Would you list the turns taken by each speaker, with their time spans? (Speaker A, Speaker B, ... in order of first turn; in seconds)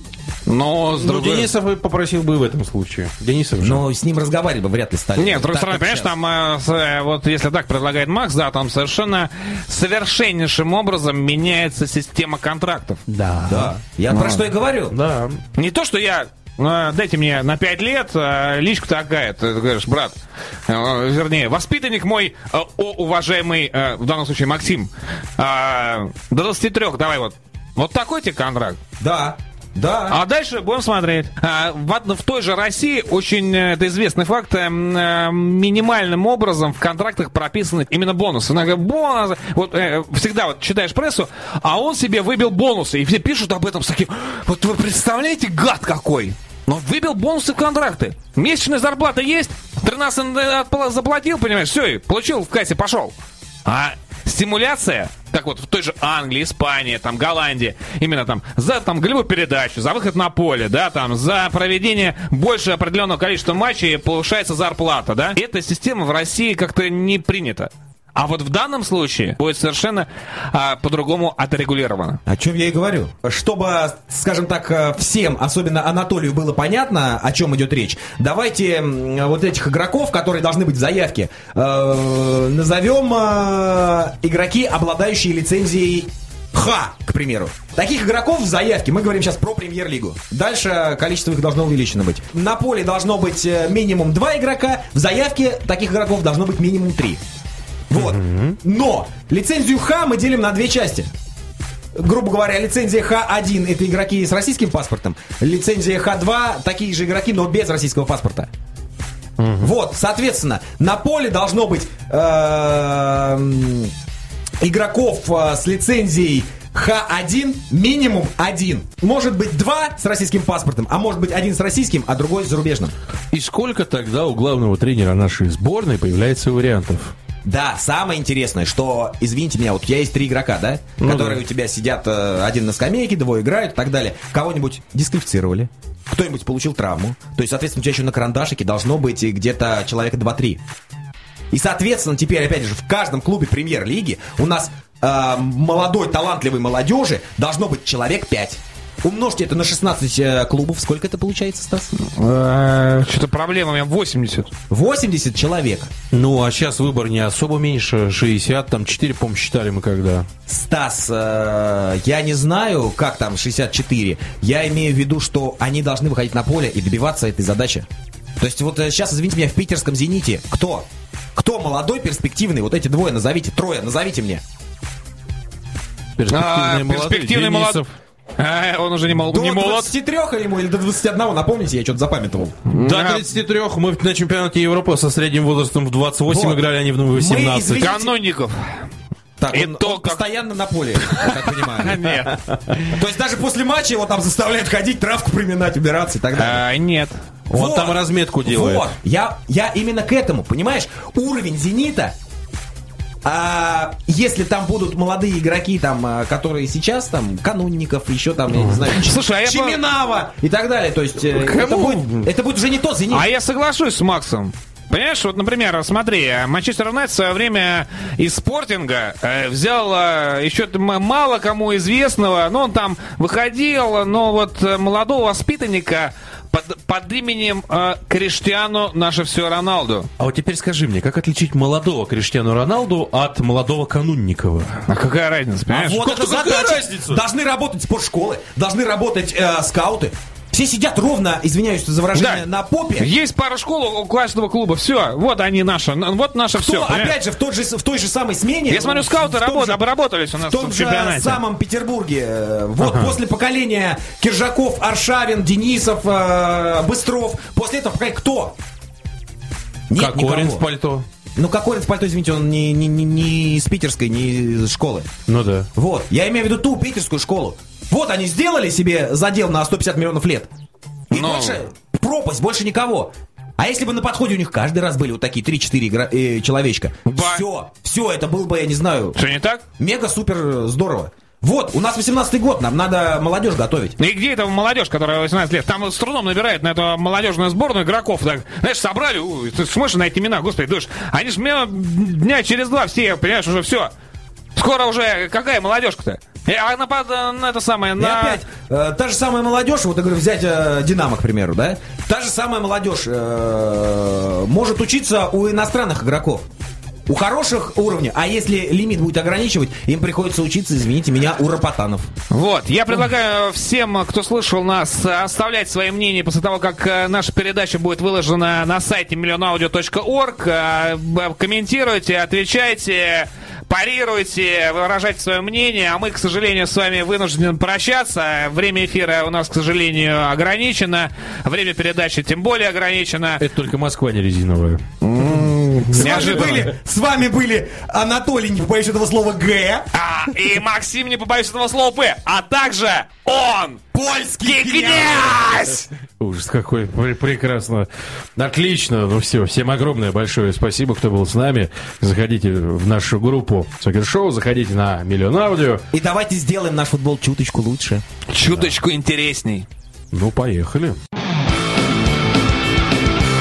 Speaker A: 0.5-1.5, 5.2-13.0, 15.6-20.1, 20.7-28.8, 30.1-72.2, 152.0-154.5, 176.3-177.8, 178.4-179.9, 182.7-183.2, 187.8-188.8, 189.5-190.2, 191.0-193.0, 196.3-197.2, 208.9-209.8, 213.1-230.1, 234.9-236.0, 242.1-242.4, 243.0-247.2, 248.7-251.4, 271.1-271.6, 277.1-277.4, 279.1-279.6, 284.0-293.9, 294.6-298.4, 312.3-333.4, 335.0-336.6, 339.9-343.8, 344.4-345.9, 358.3-359.7
Speaker B: 0.9-3.8, 13.1-15.4, 98.0-98.6, 109.4-109.7, 123.3-127.1, 131.0-131.4, 156.1-160.3, 176.2-177.9, 182.8-187.9, 197.5-198.9, 208.5-208.8, 211.3-212.3, 230.2-234.8, 236.0-237.2, 252.8-253.2, 260.0-261.1, 265.3-265.7, 333.4-336.7, 346.2-355.8, 358.4-358.7, 360.1-361.0
Speaker C: 3.6-6.1, 13.5-14.9, 29.0-30.2, 72.3-97.2, 97.9-101.1, 102.0-108.5, 109.5-113.9, 114.6-122.9, 127.4-140.6, 141.5-151.9, 154.7-155.9, 160.5-167.9, 168.4-174.4, 179.2-182.6, 186.3-188.1, 189.4-192.3, 192.9-196.6, 197.5-202.2, 203.2-213.3, 235.7-243.1, 246.6-249.8, 250.4-258.6, 259.9-260.7, 261.4-265.1, 265.8-270.5, 271.1-279.2, 279.8-284.0, 298.0-306.4, 307.1-312.1, 335.9-339.9, 343.9-345.7, 355.9-358.0